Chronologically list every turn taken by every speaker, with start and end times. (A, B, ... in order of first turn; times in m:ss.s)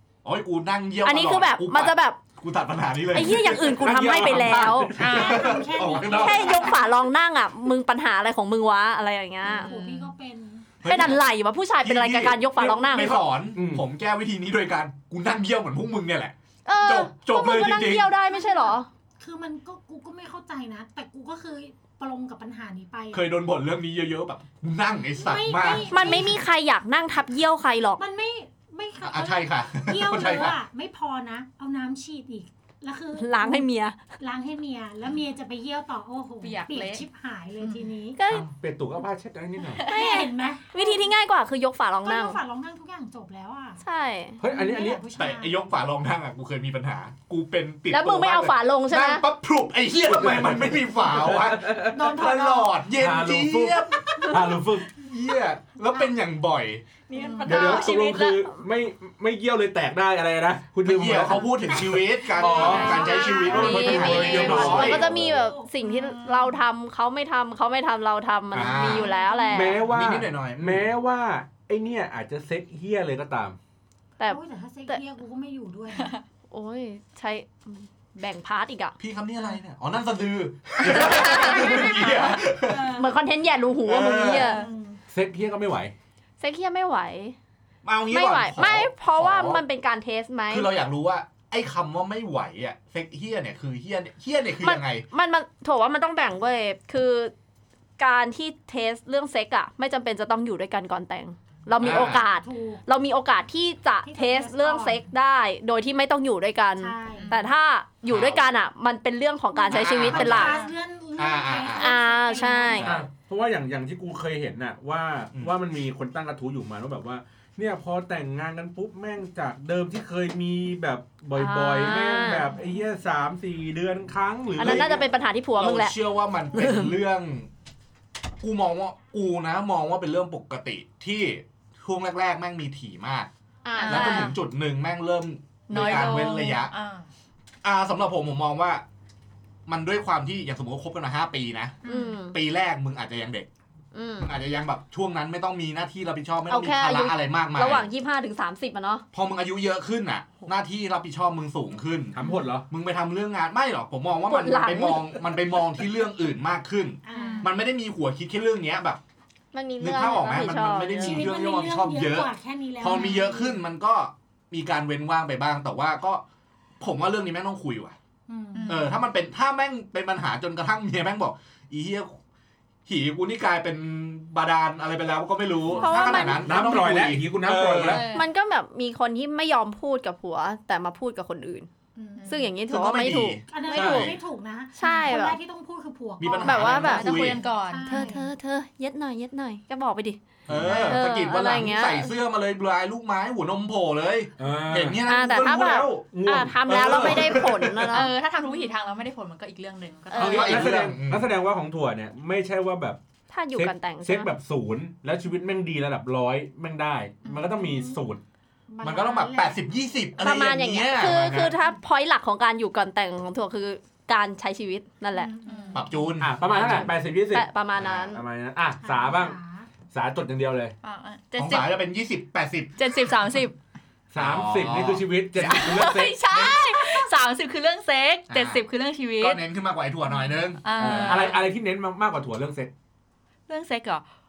0:00.2-0:03.9 A
0:01.0-0:02.2 B
0:03.1-0:05.0 B
0:03.2-0:05.4 C
0:05.0-0:05.5 D
0:05.0-0:06.7 A
0:05.0-0:06.9 E
0:06.0-0:09.7 B
0:09.4-0:10.1 D
0:09.4-0:10.7 E
0:10.8-0:11.2 A
0:10.8-0:13.2 B
0:11.8-0:18.1 A
0:13.0-0:13.8 C
0:16.7-0:18.9 B
0:18.3-0:23.3 E
0:23.1-0:26.2 A
0:25.1-0:26.4 E
0:25.9-0:28.0 B
0:28.0-0:33.7 E
0:29.0-0:30.6 A
0:33.2-0:34.0 B
0:34.2-0:38.2 E
0:36.4-0:37.0 D
0:38.2-0:38.4 B
0:38.3-0:39.9 C
0:39.8-0:41.1 E
0:39.9-0:42.4 B
0:42.0-0:43.8 E
0:43.8-0:44.4 B
0:44.4-0:45.0 C
0:44.4-0:45.6 E
0:45.2-0:56.9 A
0:47.9-0:49.3 B
0:50.1-0:52.0 C
0:51.9-0:52.8 E
0:53.0-0:55.0 C
0:57.1-0:58.5 D
0:57.1-0:57.8 E
0:57.4-1:05.3 C
1:00.8-1:05.3 A
1:01.3-1:06.6 E
1:02.7-1:03.1 D
1:02.9-1:09.8 B
1:08.5-1:09.1 A
1:08.5-1:08.9 C
1:08.7-1:10.1 E
1:09.5-1:13.6 C
1:09.9-1:10.9 A
1:14.2-1:15.0 B
1:14.3-1:16.2 E
1:16.5-1:19.0 B
1:19.0-1:23.0 A
1:20.8-1:22.3 B
1:21.2-1:22.2 E
1:22.7-1:23.0 E
1:22.9-1:24.7 B
1:23.8-1:24.6 A
1:24.3-1:25.0 E
1:25.1-1:25.9 C
1:26.4-1:27.4 B
1:27.8-1:29.6 A
1:28.1-1:30.7 B
1:30.5-1:35.0 A
1:34.6-1:37.3 B
1:38.0-1:50.6 B
1:41.8-1:42.8 E
1:41.8-1:42.2 A
1:44.0-1:45.0 E
1:46.8-1:47.4 E
1:47.1-1:47.4 D
1:48.1-1:48.4 A
1:49.6-1:52.9 E
1:49.7-1:50.6 A
1:50.3-1:50.7 D
1:51.2-1:51.9 A
1:51.8-1:53.0 B
1:52.8-1:53.1 A
1:52.8-2:05.0 C
2:01.4-2:02.6 B
2:04.6-2:06.0 B
2:04.6-2:05.0 A
2:05.6-2:07.5 A
2:06.6-2:06.9 B
2:08.4-2:13.3 A
2:13.6-2:14.4 B
2:13.8-2:14.4 D
2:13.8-2:16.7 A
2:15.7-2:16.5 B
2:15.7-2:17.1 D
2:17.6-2:18.8 A
2:19.7-2:23.5 A
2:21.8-2:22.4 B
2:23.9-2:24.3 B
2:24.2-2:27.9 A
2:26.5-2:29.0 B
2:29.1-2:32.2 A
2:32.1-2:32.7 C
2:32.7-2:39.0 A
2:34.3-2:35.3 B
2:37.0-2:37.6 E
2:37.1-2:37.5 D
2:39.5-2:41.3 B
2:39.8-2:46.2 A
2:41.0-2:43.6 E
2:42.9-2:43.3 D
2:46.8-2:48.0 A
2:48.3-2:48.9 E
2:48.5-2:49.0 D
2:48.7-2:52.2 A
2:52.9-2:58.0 A
2:55.7-2:58.1 C
2:55.8-2:56.6 B
2:55.9-2:56.4 E
2:57.8-2:58.2 D
2:58.1-3:01.7 B
3:02.0-3:02.3 E
3:02.0-3:02.5 D
3:02.3-3:04.2 B
3:02.7-3:04.2 A
3:03.5-3:08.2 E
3:04.8-3:05.4 B
3:04.8-3:05.2 D
3:06.2-3:07.4 A
3:06.4-3:12.1 B
3:06.8-3:08.3 D
3:10.5-3:16.1 A
3:10.5-3:10.7 C
3:10.6-3:11.0 E
3:14.4-3:15.0 C
3:15.0-3:18.1 B
3:16.1-3:17.5 C
3:16.6-3:18.1 A
3:17.9-3:20.6 D
3:20.1-3:20.7 B
3:20.2-3:23.0 C
3:20.2-3:21.3 A
3:23.3-3:24.3 B
3:23.5-3:28.2 C
3:27.2-3:27.6 D
3:27.5-3:28.0 E
3:28.7-3:29.9 E
3:28.8-3:31.6 A
3:30.2-3:35.3 B
3:35.1-3:36.1 E
3:35.5-3:35.8 D
3:35.7-3:36.9 A
3:36.2-3:39.4 C
3:36.6-3:38.2 B
3:37.8-3:38.1 A
3:38.8-3:39.7 E
3:39.9-3:40.8 C
3:40.8-3:41.8 D
3:41.4-3:42.9 A
3:42.8-3:43.6 D
3:44.1-3:46.2 C
3:44.2-3:45.7 A
3:45.4-3:49.4 D
3:46.3-3:46.6 A
3:48.3-3:48.7 A
3:49.2-3:51.4 A
3:50.6-3:51.5 D
3:50.8-3:52.7 C
3:53.5-3:54.0 D